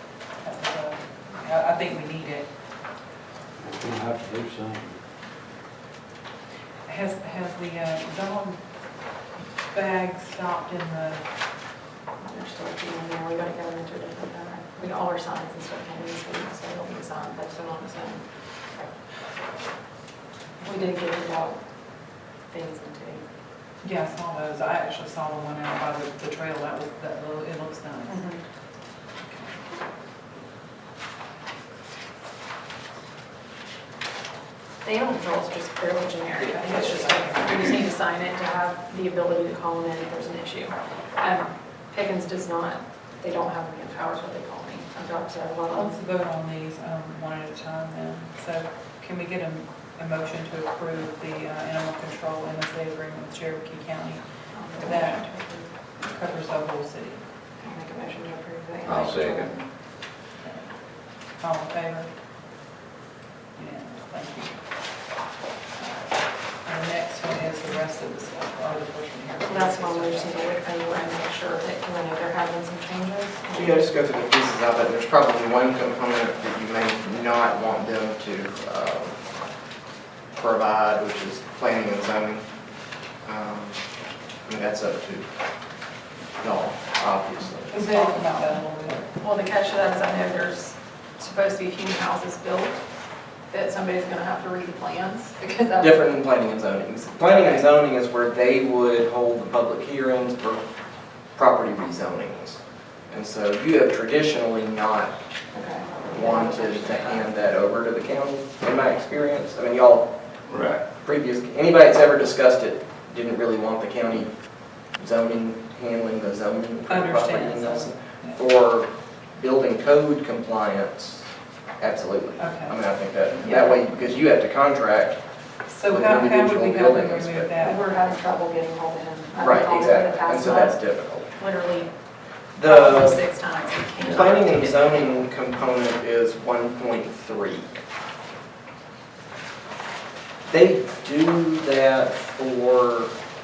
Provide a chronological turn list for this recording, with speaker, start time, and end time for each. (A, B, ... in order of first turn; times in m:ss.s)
0:00.4-0:02.5 A
0:03.6-0:05.0 B
0:06.9-0:08.6 A
0:09.7-0:11.2 A
0:12.2-0:18.2 C
0:20.6-0:21.6 C
0:22.5-0:23.2 C
0:23.8-0:28.2 A
0:28.1-0:28.4 C
0:29.3-0:29.6 A
0:34.8-0:45.9 C
0:36.4-0:37.6 A
0:45.7-0:54.2 A
0:54.5-0:55.7 C
0:54.8-0:55.2 A
0:56.0-0:57.2 A
0:57.6-0:59.7 C
0:58.9-0:59.5 B
1:00.4-1:00.7 A
1:01.4-1:02.1 A
1:03.6-1:04.6 A
1:06.6-1:10.4 A
1:09.5-1:13.8 C
1:13.6-1:19.2 D
1:20.4-1:22.4 D
1:23.2-1:23.8 D
1:24.5-1:25.3 D
1:26.4-1:27.7 D
1:27.7-1:29.1 A
1:27.8-1:28.1 C
1:29.2-1:32.8 C
1:33.5-1:36.0 C
1:35.8-1:40.6 D
1:37.3-1:37.6 A
1:41.4-1:45.1 D
1:45.5-1:47.2 C
1:46.1-1:50.1 D
1:50.5-1:50.8 B
1:51.0-1:54.3 D
1:54.9-2:01.3 D
1:56.9-1:58.4 A
2:01.8-2:05.2 D
2:02.4-2:02.8 A
2:03.4-2:03.8 C
2:05.7-2:07.8 A
2:05.9-2:07.5 D
2:07.6-2:10.8 C
2:09.4-2:11.3 D
2:11.4-2:11.9 C
2:12.6-2:13.2 D
2:12.6-2:14.8 C
2:14.0-2:17.7 D
2:20.5-2:23.1 D